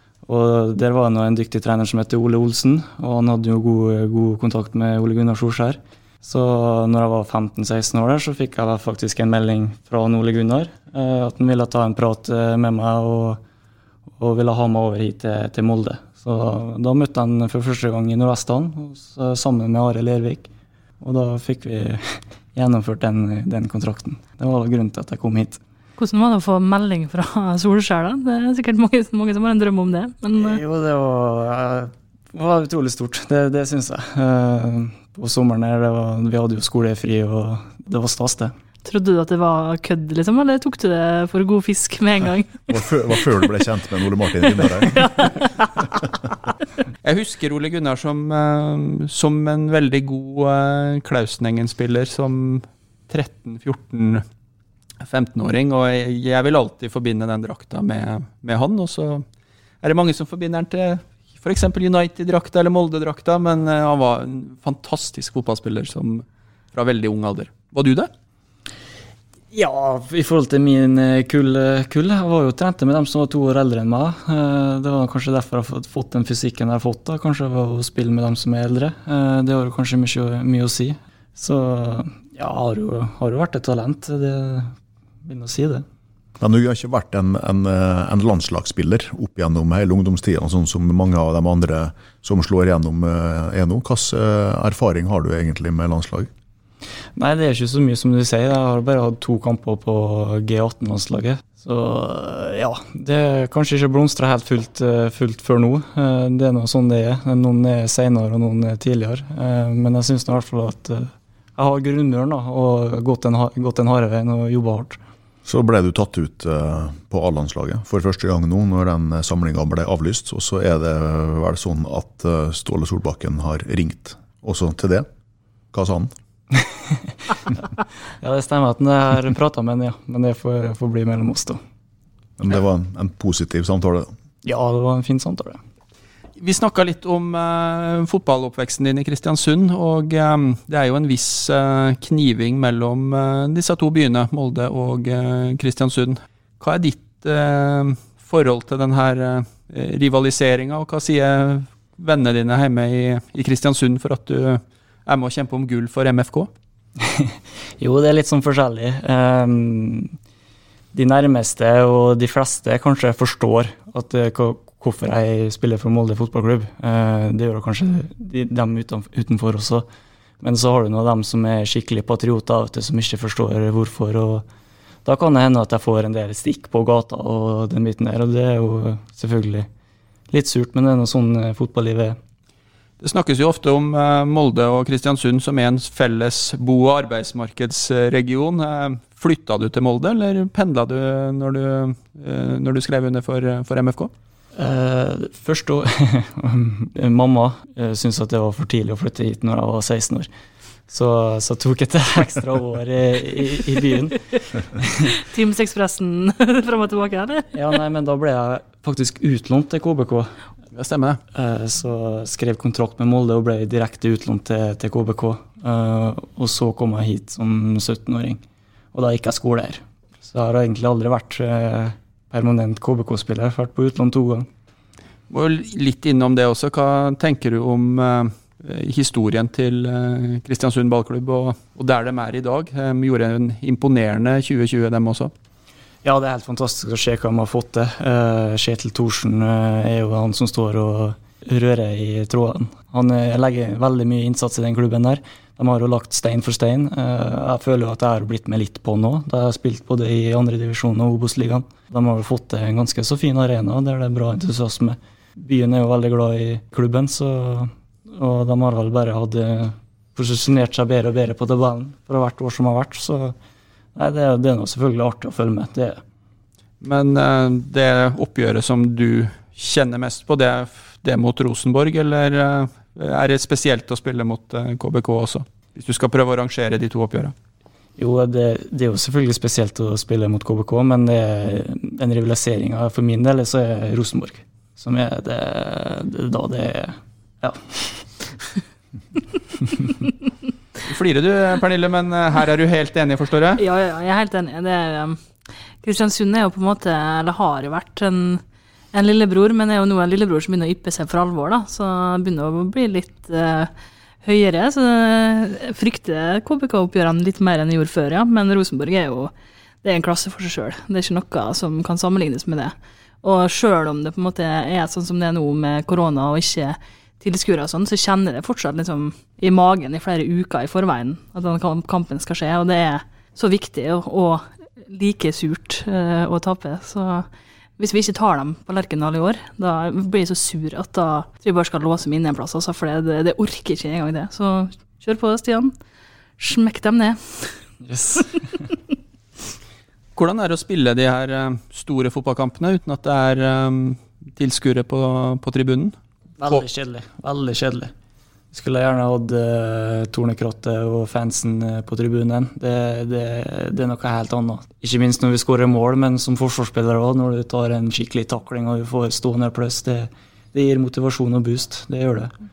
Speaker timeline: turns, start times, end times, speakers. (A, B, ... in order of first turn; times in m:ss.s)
0:00.2-0:13.4 A
0:14.2-0:20.5 A
0:21.0-0:25.6 A
0:26.0-0:30.6 B
0:30.4-0:38.5 A
0:38.8-0:42.7 B
0:42.7-0:45.2 C
0:45.0-0:45.8 B
0:47.0-0:54.2 D
0:55.0-0:59.2 D
0:59.8-1:08.1 D
1:09.5-1:25.8 A
1:26.4-1:36.3 C
1:37.2-1:55.0 A
1:55.4-2:05.1 C
2:05.7-2:06.1 C
2:06.5-2:07.2 A
2:08.2-2:11.6 A
2:12.4-2:14.1 C
2:14.4-2:15.6 A
2:16.4-2:36.5 D
2:37.0-2:40.2 A
2:40.9-2:49.8 A
2:50.4-2:54.4 A
2:55.0-2:59.7 A
3:00.3-3:02.2 A
3:03.0-3:14.1 D
3:14.6-3:20.3 A
3:20.9-3:24.2 A
3:25.1-3:27.5 B
3:27.5-3:30.3 A
3:30.7-3:31.2 D
3:31.3-3:38.4 A
3:38.9-3:44.5 A
3:45.3-3:55.3 D
3:56.0-4:23.4 A
4:24.0-4:26.0 A
4:26.8-4:37.3 D
4:38.0-4:48.0 A
4:50.8-4:53.6 D
4:53.6-4:55.2 B
4:55.8-5:03.7 B
5:04.2-5:35.7 B
5:36.4-5:37.6 B
5:37.8-5:38.7 A
5:40.2-5:45.9 D
5:46.4-5:47.9 A
5:48.5-6:02.3 A